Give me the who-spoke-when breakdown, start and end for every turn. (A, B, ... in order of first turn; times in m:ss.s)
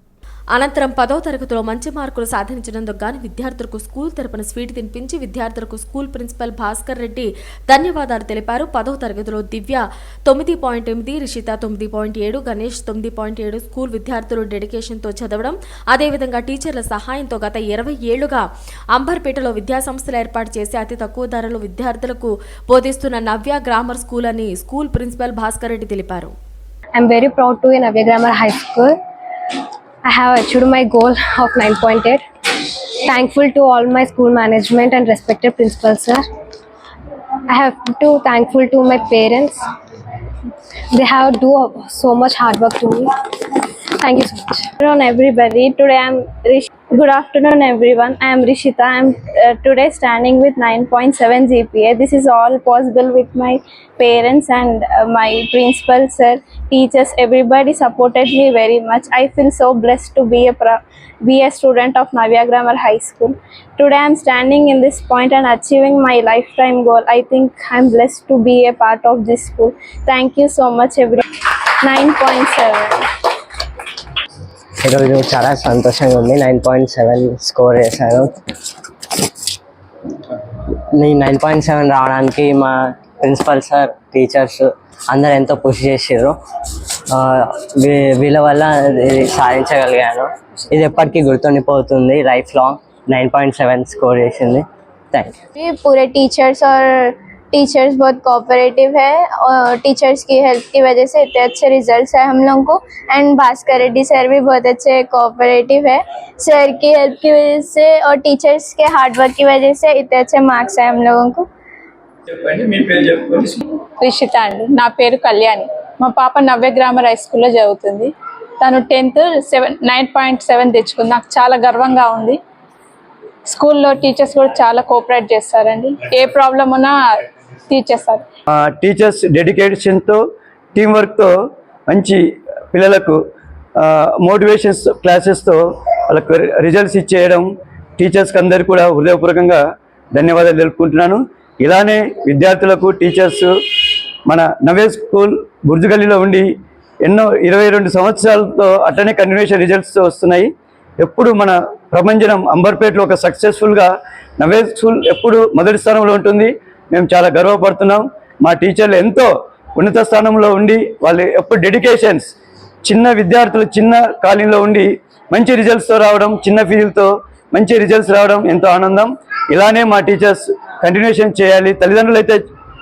0:00.5-0:26.3 A
0:27.0-0:29.0 B
0:30.1-0:32.2 B
0:33.1-0:36.2 B
0:37.5-0:39.6 B
0:41.0-0:43.1 B
0:44.0-0:44.7 B
0:44.8-1:11.2 C
1:11.9-1:13.0 C
1:14.8-1:18.3 D
1:20.9-1:26.4 D
1:27.1-1:35.4 D
1:35.6-1:51.5 E
1:52.4-1:53.6 F
1:54.0-2:02.4 G
2:03.5-2:07.1 G
2:07.7-2:08.2 G
2:08.5-2:10.2 F
2:10.8-2:11.3 F
2:11.9-2:12.2 F
2:12.7-2:13.2 F
2:13.8-2:17.5 F
2:18.0-2:19.6 F
2:20.1-2:23.5 F
2:24.3-2:26.5 F
2:27.0-2:42.3 F
2:42.8-2:52.4 F